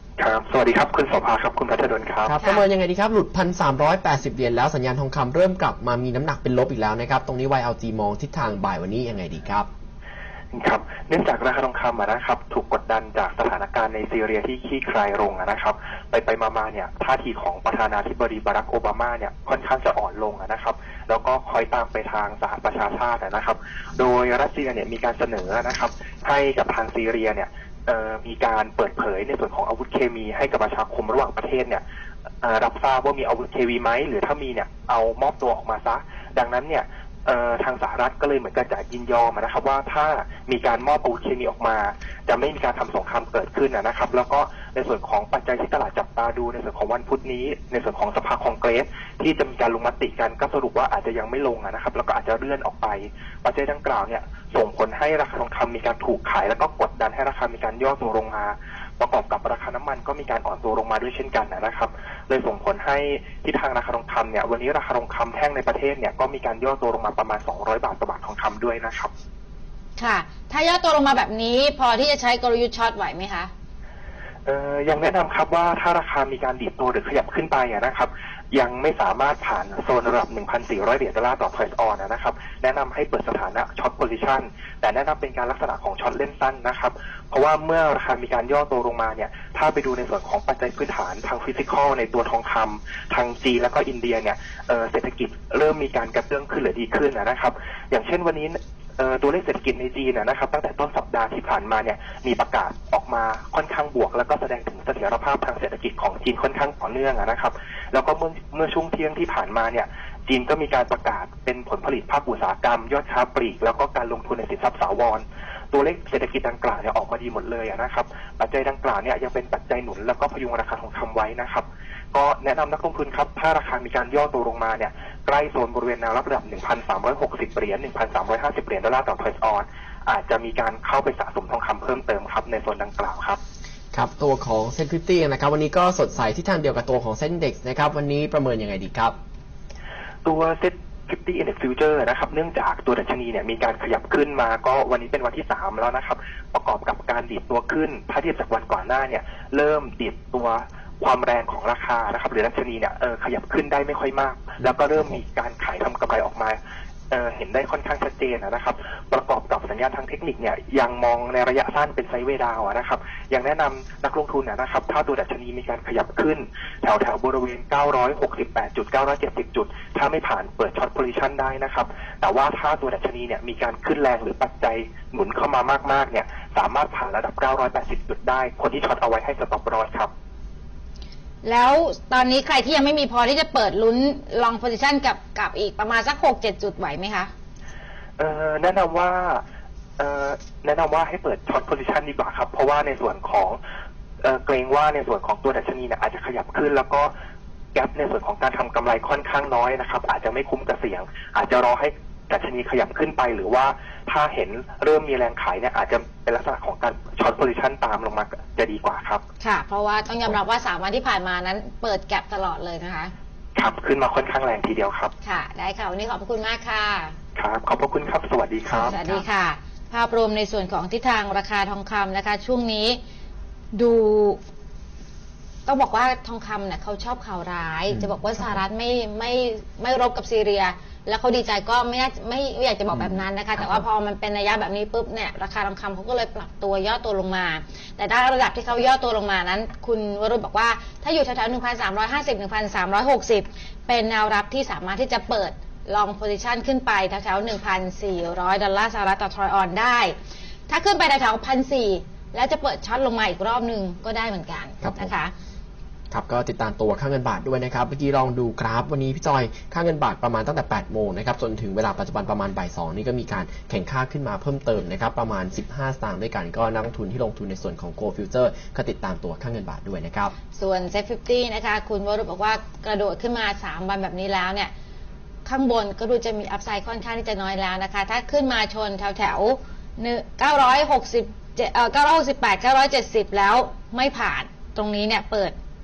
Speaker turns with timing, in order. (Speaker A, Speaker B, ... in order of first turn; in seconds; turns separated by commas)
Speaker A: 0.2-2.3, Speaker B: 2.2-9.7, Speaker C: 2.4-2.7, Speaker A: 10.5-31.8, Speaker A: 32.4-69.1, Speaker C: 70.0-73.5, Speaker A: 74.5-133.4, Speaker B: 133.9-139.2, Speaker A: 140.2-156.6, Speaker A: 157.1-180.1, Speaker C: 181.4-187.3, Speaker A: 188.2-189.4, Speaker A: 190.0-193.6, Speaker A: 194.2-197.1, Speaker A: 197.7-209.2, Speaker C: 209.4-213.1, Speaker A: 213.5-215.1, Speaker C: 215.2-217.1, Speaker A: 217.3-219.2, Speaker C: 218.7-223.0, Speaker C: 223.7-224.4, Speaker C: 225.7-250.1, Speaker B: 227.9-228.5, Speaker C: 250.7-255.3, Speaker B: 254.8-255.1, Speaker B: 256.1-270.3, Speaker C: 270.5-274.7, Speaker C: 275.4-285.5